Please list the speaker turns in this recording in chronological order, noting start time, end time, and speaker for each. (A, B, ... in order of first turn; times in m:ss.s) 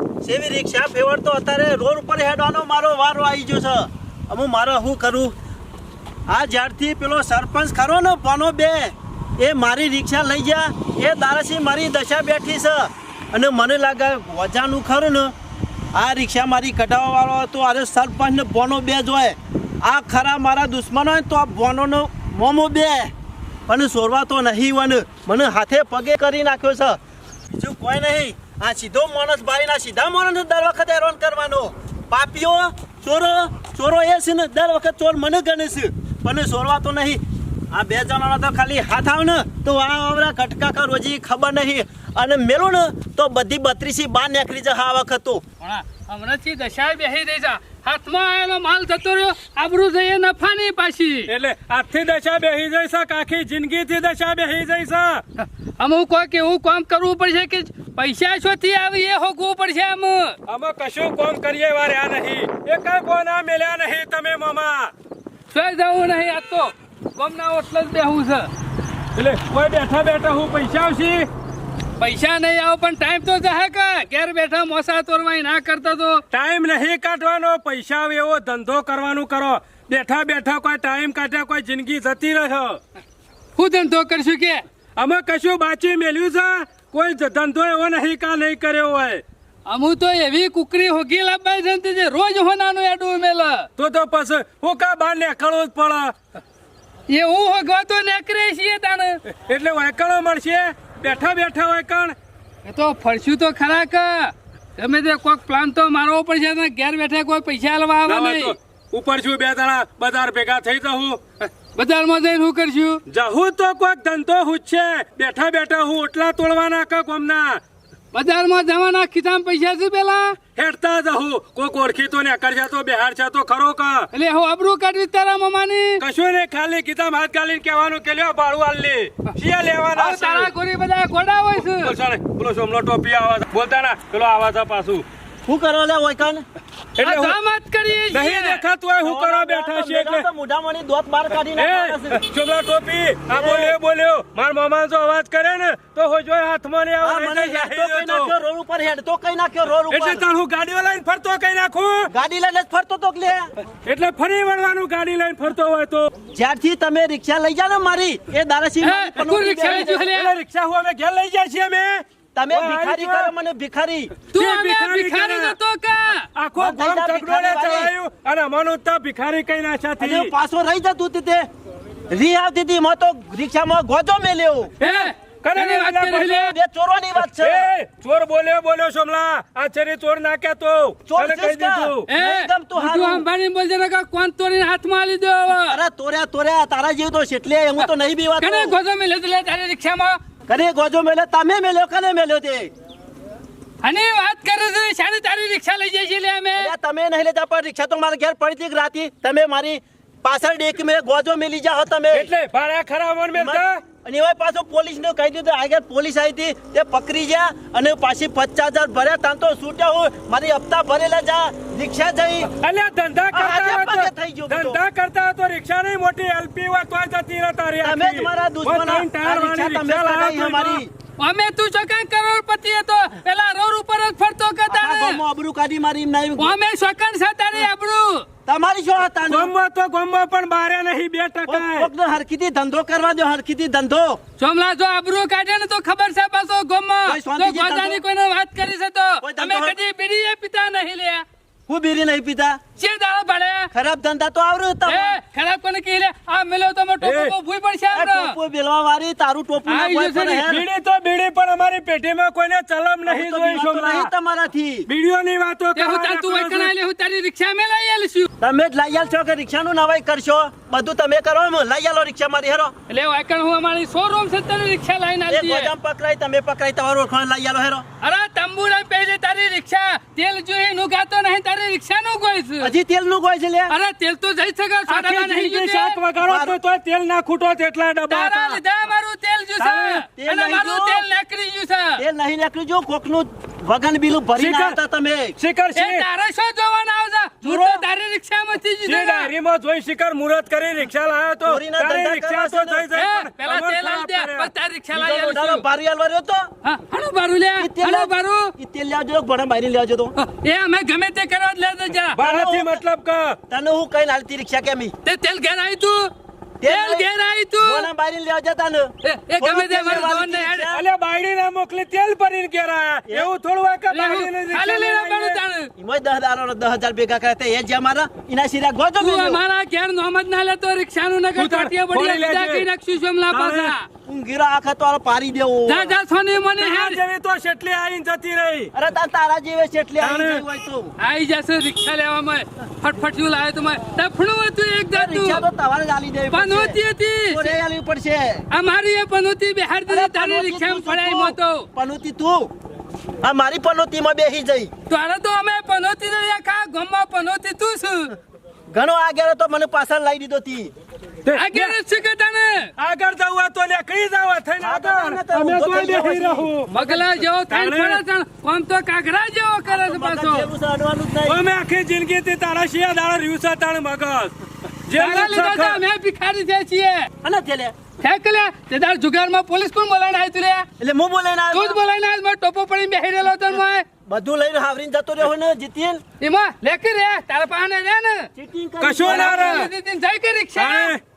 0:00.2-0:05.3 A
0:06.3-0:15.3 A
0:15.9-0:23.1 A
0:23.7-0:27.0 A
0:27.5-0:45.4 A
0:45.6-0:51.3 B
0:51.3-0:55.2 C
0:55.4-1:00.4 B
1:00.5-1:04.9 C
1:05.5-1:08.5 B
1:09.1-1:11.3 C
1:12.0-1:16.2 B
1:16.3-1:22.8 C
1:23.6-1:24.6 B
1:25.0-1:29.2 C
1:29.6-1:33.7 B
1:33.8-1:36.2 C
1:37.1-1:39.2 B
1:39.3-1:42.2 C
1:42.6-1:48.6 B
1:48.1-1:51.5 C
1:51.7-1:53.0 B
1:53.1-1:57.6 C
1:58.1-2:00.4 B
2:00.6-2:04.1 C
2:04.1-2:06.0 B
2:06.0-2:10.5 C
2:09.9-2:11.9 B
2:11.6-2:15.0 C
2:15.4-2:16.4 A
2:17.0-2:17.4 C
2:17.0-2:18.6 B
2:18.1-2:20.3 C
2:19.0-2:22.2 A
2:21.4-2:28.3 C
2:23.3-2:23.7 A
2:27.0-2:30.2 A
2:29.9-2:32.1 C
2:32.1-2:33.5 A
2:33.7-2:36.1 C
2:36.3-2:39.8 A
2:38.8-2:40.3 B
2:39.3-2:43.3 C
2:42.3-2:44.1 A
2:44.2-2:45.5 C
2:44.3-2:46.3 B
2:46.3-2:50.3 C
2:46.6-2:47.9 A
2:50.0-2:51.5 A
2:52.1-2:54.7 A
2:54.8-2:56.5 B
2:54.8-2:56.5 C
2:56.5-2:57.6 A
2:57.1-3:02.1 C
3:01.1-3:03.2 A
3:02.1-3:05.8 B
3:05.6-3:08.7 A
3:07.8-3:10.2 B
3:10.5-3:12.7 A
3:13.8-3:16.7 B
3:16.6-3:22.2 A
3:22.1-3:23.8 C
3:23.4-3:32.5 A
3:32.4-3:40.8 C
3:33.3-3:34.8 A
3:37.8-3:40.9 A
3:41.2-3:45.2 B
3:44.7-3:46.5 A
3:46.4-3:48.2 B
3:48.4-3:49.5 A
3:49.2-3:51.9 C
3:51.5-3:54.2 A
3:54.4-4:01.2 B
3:57.1-3:58.0 A
3:59.2-3:59.8 A
4:01.7-4:02.6 A
4:02.8-4:03.7 B
4:03.7-4:05.2 A
4:04.8-4:08.4 B
4:07.0-4:07.3 C
4:07.9-4:10.6 A
4:09.6-4:10.5 B
4:10.4-4:14.1 C
4:13.0-4:14.8 A
4:14.9-4:16.7 C
4:15.8-4:18.3 B
4:18.4-4:22.7 A
4:22.9-4:25.7 B
4:25.3-4:27.8 A
4:28.0-4:32.7 B
4:32.6-4:33.7 A
4:33.7-4:36.0 B
4:34.9-4:38.6 C
4:36.2-4:36.6 A
4:38.1-4:42.0 B
4:39.6-4:41.0 A
4:42.0-4:45.3 A
4:44.4-4:44.8 C
4:45.4-4:46.0 C
4:45.7-4:49.3 B
4:47.4-4:47.8 A
4:48.8-4:54.5 C
4:51.5-4:52.8 A
4:52.9-4:55.6 B
4:55.0-4:56.5 A
4:56.6-4:58.5 B
4:57.6-5:00.1 A
5:00.2-5:02.2 B
5:02.1-5:03.4 C
5:02.3-5:02.7 A
5:03.5-5:04.9 A
5:05.0-5:06.1 B
5:06.6-5:07.0 A
5:06.6-5:07.9 B
5:07.6-5:10.8 A
5:09.0-5:10.7 B
5:10.7-5:15.4 C
5:13.9-5:15.7 B
5:15.8-5:19.4 A
5:19.0-5:23.9 B
5:21.4-5:22.7 C
5:23.3-5:23.7 C
5:24.0-5:25.9 A
5:25.6-5:27.0 B
5:26.6-5:28.7 C
5:28.8-5:30.9 A
5:30.0-5:30.4 C
5:31.0-5:35.4 B
5:35.0-5:36.8 A
5:36.3-5:37.6 B
5:37.3-5:38.4 A
5:38.5-5:41.7 B
5:39.9-5:42.5 A
5:43.2-5:44.7 A
5:44.9-5:48.1 B
5:48.7-5:50.7 A
5:51.2-5:51.7 C
5:51.3-5:52.7 B
5:52.8-5:56.7 C
5:54.6-5:57.0 A
5:56.7-6:00.5 B
5:57.5-5:58.0 C
5:59.7-6:01.3 A
6:01.2-6:04.3 C
6:04.9-6:05.8 C
6:05.0-6:07.1 B
6:07.2-6:07.8 A
6:08.0-6:10.7 B
6:10.8-6:11.8 A
6:11.5-6:13.8 B
6:14.1-6:16.0 A
6:16.2-6:18.3 B
6:18.4-6:19.7 A
6:18.8-6:19.7 C
6:19.0-6:20.9 B
6:20.6-6:21.0 C